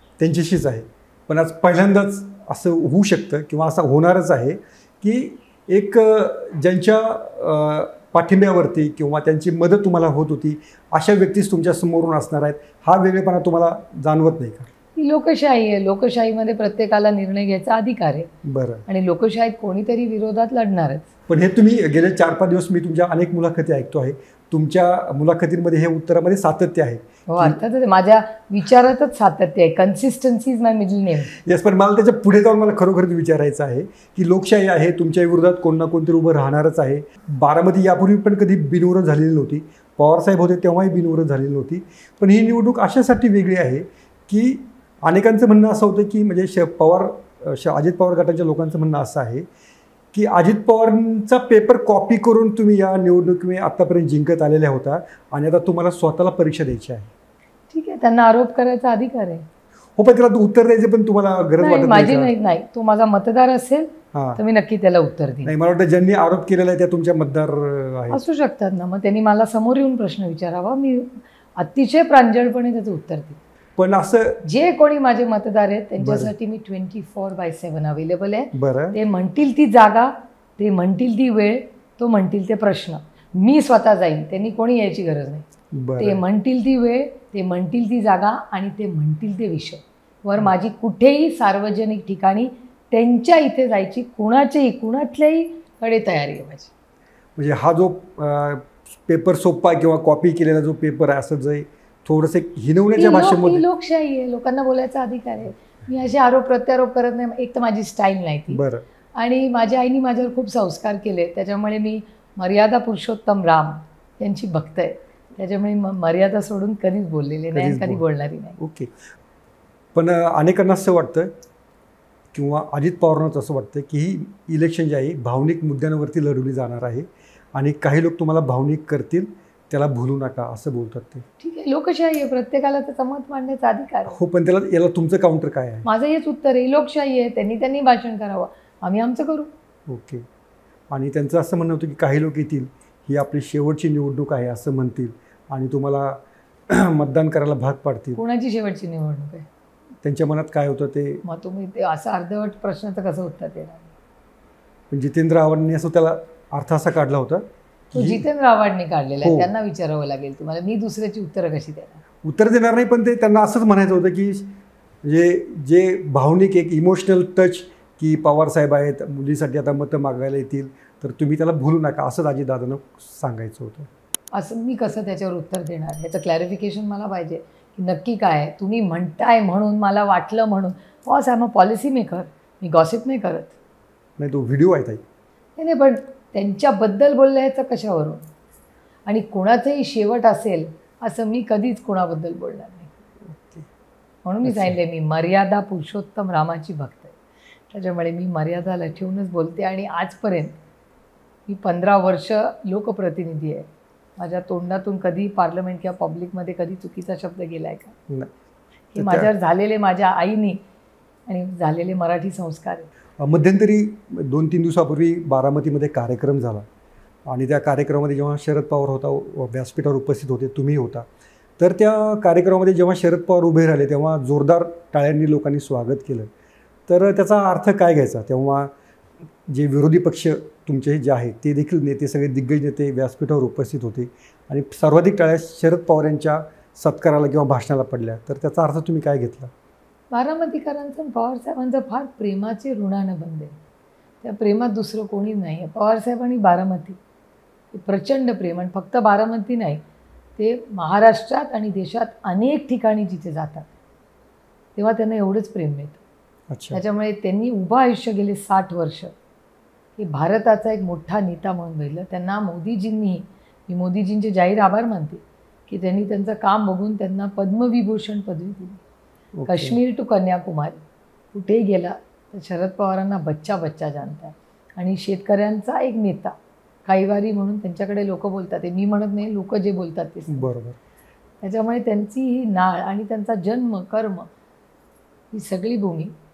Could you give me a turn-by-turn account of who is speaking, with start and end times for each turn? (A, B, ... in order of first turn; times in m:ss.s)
0:00.2-0:14.7 A
0:15.0-0:18.3 B
0:18.4-0:18.8 A
0:18.9-0:21.1 B
0:21.3-0:27.6 A
0:27.3-0:31.4 B
0:31.3-0:49.5 A
0:50.1-0:57.1 A
0:57.7-0:59.4 B
1:00.0-1:02.3 A
1:01.6-1:05.5 B
1:04.1-1:04.4 A
1:05.4-1:08.2 A
1:08.1-1:13.4 B
1:13.8-1:14.4 A
1:14.4-1:25.4 B
1:16.0-1:16.3 A
1:18.5-1:19.0 A
1:25.7-1:26.2 A
1:26.0-1:36.7 B
1:37.4-1:43.6 A
1:43.0-1:48.6 B
1:48.5-1:48.8 A
1:49.2-1:58.6 B
1:57.5-1:58.0 A
1:58.6-1:59.0 A
1:59.9-2:01.3 A
2:02.3-2:11.2 A
2:11.4-2:14.2 B
2:14.1-2:15.8 A
2:15.8-2:19.5 B
2:19.9-2:20.2 A
2:20.9-2:28.2 A
2:28.2-2:29.5 B
2:30.0-2:31.2 A
2:31.2-2:33.9 B
2:34.9-2:38.2 A
2:37.9-2:42.0 B
2:39.2-2:39.5 A
2:42.2-2:44.5 A
2:45.0-2:53.9 A
2:54.3-3:03.6 B
3:04.2-3:05.0 A
3:05.6-3:08.2 B
3:09.0-3:12.9 B
3:13.2-3:13.7 A
3:14.2-3:17.2 B
3:14.4-3:14.8 A
3:17.7-3:20.5 B
3:21.5-3:27.9 B
3:28.9-3:30.6 B
3:29.0-3:29.3 A
3:31.3-3:32.9 B
3:33.2-3:36.7 A
3:37.2-3:41.1 A
3:41.6-3:46.3 A
3:46.9-3:48.7 A
3:49.5-3:59.5 A
4:00.1-4:03.6 B
4:04.2-4:07.0 B
4:07.7-4:09.8 B
4:10.4-4:13.7 B
4:14.8-4:16.0 B
4:16.5-4:16.8 A
4:16.7-4:19.1 B
4:20.0-4:28.8 B
4:29.4-4:29.8 A
4:29.5-4:40.5 B
4:40.3-4:40.8 A
4:41.4-4:44.3 B
4:45.3-4:46.1 B